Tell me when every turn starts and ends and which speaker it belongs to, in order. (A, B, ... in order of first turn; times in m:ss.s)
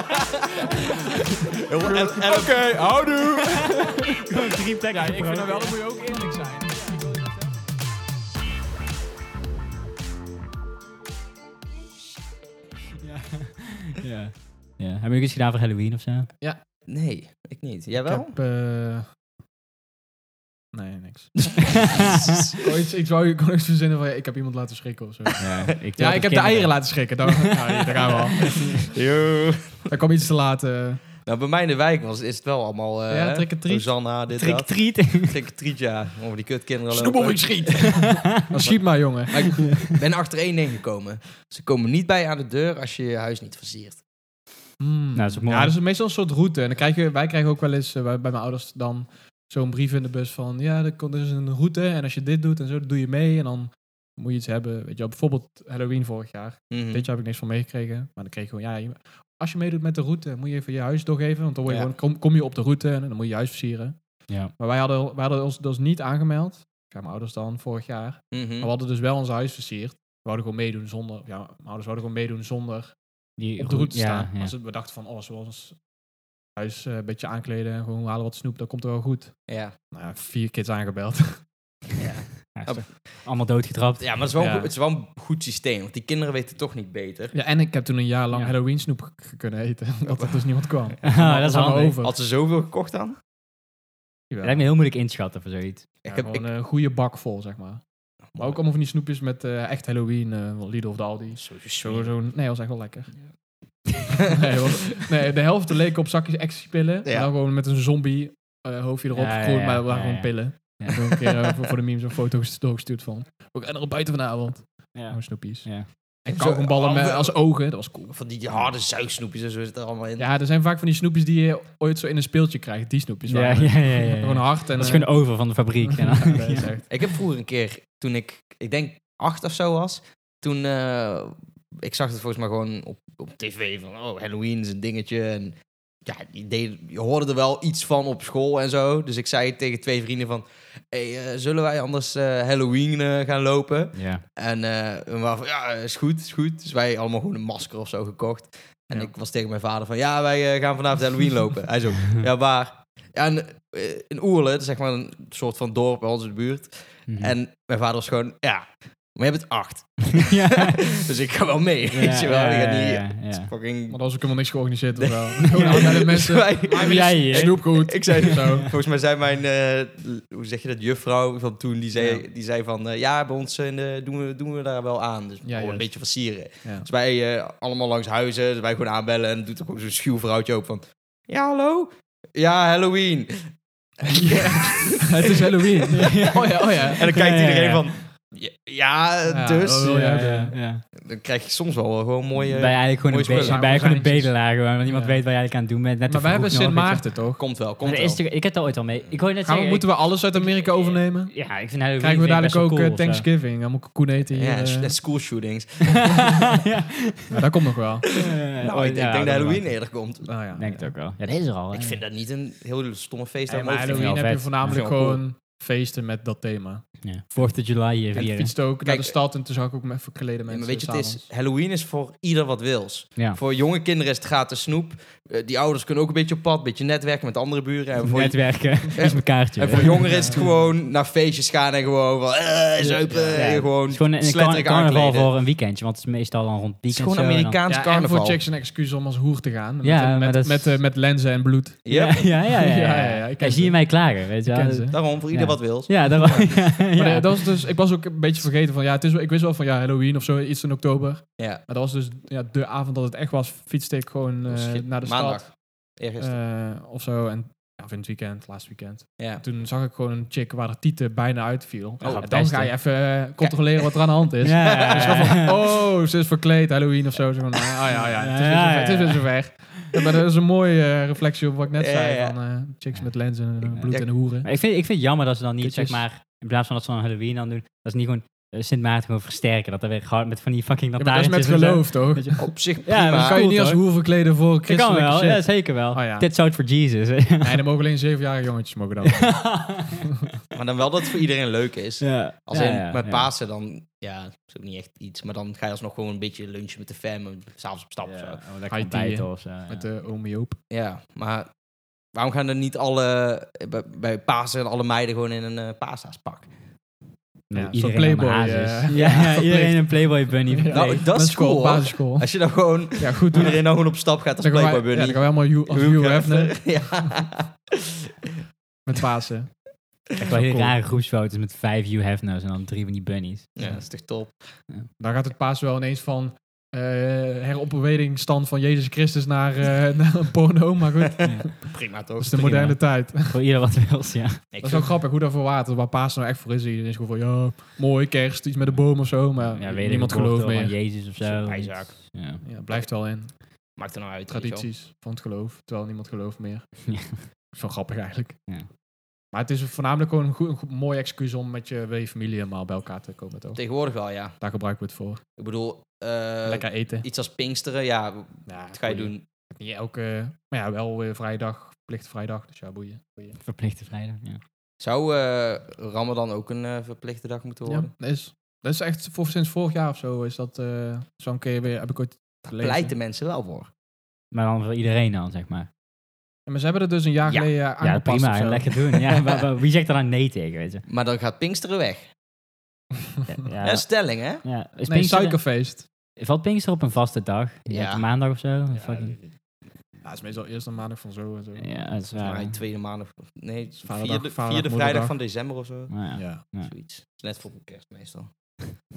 0:00.2-0:00.7 A
0:01.5-0:03.3 A
0:01.8-0:04.1 B
0:03.6-0:05.8 C
0:04.9-0:07.2 B
0:13.0-0:16.3 C
0:16.9-0:18.3 A
0:18.0-0:19.1 B
0:20.7-0:21.8 B
0:21.4-0:22.7 A
0:21.8-0:22.1 C
0:22.5-0:28.8 B
0:25.4-0:27.8 C
0:28.8-0:29.9 A
0:29.9-0:31.0 B
0:31.2-0:37.9 A
0:33.1-0:33.9 B
0:34.3-0:35.3 C
0:36.9-0:39.8 B
0:37.9-0:38.4 C
0:39.3-0:44.0 A
0:39.6-0:40.0 C
0:44.8-1:04.0 B
0:45.2-0:45.8 C
0:56.7-0:57.1 A
1:04.6-1:12.9 B
1:08.3-1:08.7 A
1:13.4-1:14.5 C
1:13.6-1:15.8 B
1:16.6-1:19.4 B
1:19.5-1:19.8 A
1:19.9-1:21.4 B
1:22.0-1:23.0 A
1:22.6-1:24.0 C
1:24.0-1:27.3 A
1:24.4-1:24.7 B
1:27.3-1:32.1 B
1:30.1-1:31.0 A
1:31.0-1:32.0 C
1:32.0-1:33.2 A
1:34.3-1:34.6 B
1:34.4-1:35.9 C
1:36.0-1:36.5 A
1:36.1-1:37.8 B
1:38.4-1:43.1 B
1:41.4-1:42.1 A
1:44.1-1:45.1 A
1:44.3-1:58.7 B
1:47.0-1:47.3 A
1:49.1-1:51.0 C
1:51.1-1:51.6 A
1:54.9-1:55.9 C
1:56.3-1:57.4 A
1:58.1-2:00.3 A
2:00.2-2:05.3 B
2:03.3-2:06.7 C
2:05.8-2:06.9 B
2:06.9-2:44.0 A
2:23.9-2:24.2 C
2:37.1-2:37.4 C
2:40.2-2:40.9 C
2:41.9-2:43.5 C
2:43.9-2:48.7 B
2:45.0-3:10.0 A
2:45.6-2:45.9 C
2:46.7-2:48.2 C
2:51.9-2:52.2 B
2:55.4-2:55.9 B
3:04.1-3:07.0 B
3:05.9-3:07.9 C
3:09.3-3:10.6 B
3:09.8-3:10.8 C
3:11.0-3:13.6 A
3:12.4-3:17.1 C
3:13.3-3:15.2 B
3:16.1-3:17.4 B
3:17.4-3:18.2 A
3:17.8-3:23.3 C
3:19.4-3:21.4 B
3:22.0-3:25.0 B
3:24.3-3:26.5 A
3:25.9-3:27.4 C
3:27.3-3:28.1 B
3:28.1-3:30.3 A
3:28.1-3:29.7 C
3:30.3-3:30.9 B
3:30.6-3:32.0 C
3:31.7-3:35.2 A
3:33.5-3:36.8 B
3:33.9-3:34.8 C
3:37.0-3:38.5 C
3:38.1-3:41.2 B
3:38.8-3:39.1 A
3:40.5-3:55.3 A
3:48.0-3:50.5 C
3:49.8-3:50.6 B
3:52.8-3:57.6 C
3:53.1-3:53.4 B
3:56.9-3:58.4 A
3:57.7-4:01.9 B
3:59.8-4:00.8 C
4:01.8-4:02.3 A
4:01.9-4:07.5 C
4:02.4-4:05.0 B
4:04.9-4:06.5 A
4:06.8-4:15.5 B
4:14.5-4:16.4 A
4:16.2-4:34.5 B
4:19.2-4:19.4 A
4:22.0-4:22.3 A
4:22.0-4:22.7 C
4:23.4-4:25.6 A
4:24.4-4:25.6 C
4:27.7-4:27.9 A
4:28.2-4:29.3 C
4:31.8-4:32.4 A
4:34.4-4:43.8 C
4:35.6-4:36.0 B
4:41.0-4:42.5 B
4:42.4-4:43.4 A
4:43.1-4:46.3 B
4:44.7-4:47.6 C
4:47.4-4:49.4 B
4:49.0-4:50.2 C
4:50.5-4:58.4 A
4:52.0-4:53.3 C
4:58.0-4:59.9 C
4:58.7-5:00.6 B
5:00.7-5:01.5 A
5:02.1-5:06.5 A
5:07.5-5:11.0 C
5:07.5-5:12.3 B
5:08.9-5:09.2 A
5:10.7-5:18.3 A
5:13.0-5:13.6 B
5:14.4-5:16.6 B
5:18.9-5:19.6 B
5:20.2-5:20.8 B
5:20.2-5:23.5 C
5:23.6-5:24.6 A
5:25.0-5:33.4 B
5:31.0-5:32.8 A
5:33.2-5:34.4 C
5:34.5-5:34.9 A
5:34.6-5:40.8 B
5:39.6-5:42.4 C
5:41.2-5:42.0 A
5:42.4-5:43.3 B
5:43.8-5:44.7 A
5:44.3-5:46.7 B
5:46.9-5:47.2 C
5:47.5-5:48.4 B
5:49.3-5:53.6 B
5:53.6-5:54.4 A
5:54.4-5:55.2 B
5:55.4-5:59.2 A
5:56.5-5:57.1 B
5:58.5-6:03.4 B
6:03.4-6:04.4 C
6:04.8-6:07.9 A
6:07.7-6:13.0 B
6:12.5-6:13.7 A
6:14.3-6:15.7 C
6:16.5-6:18.9 B
6:17.8-6:20.8 C
6:20.9-6:22.1 A
6:23.3-6:25.4 C
6:23.6-6:24.4 A
6:24.9-6:25.9 B
6:26.2-6:29.2 C
6:27.7-6:28.0 A
6:30.0-6:31.9 B
6:31.6-6:32.6 C
6:32.1-6:38.3 A
6:33.8-6:35.2 B
6:35.9-6:36.7 C
6:36.1-6:36.4 B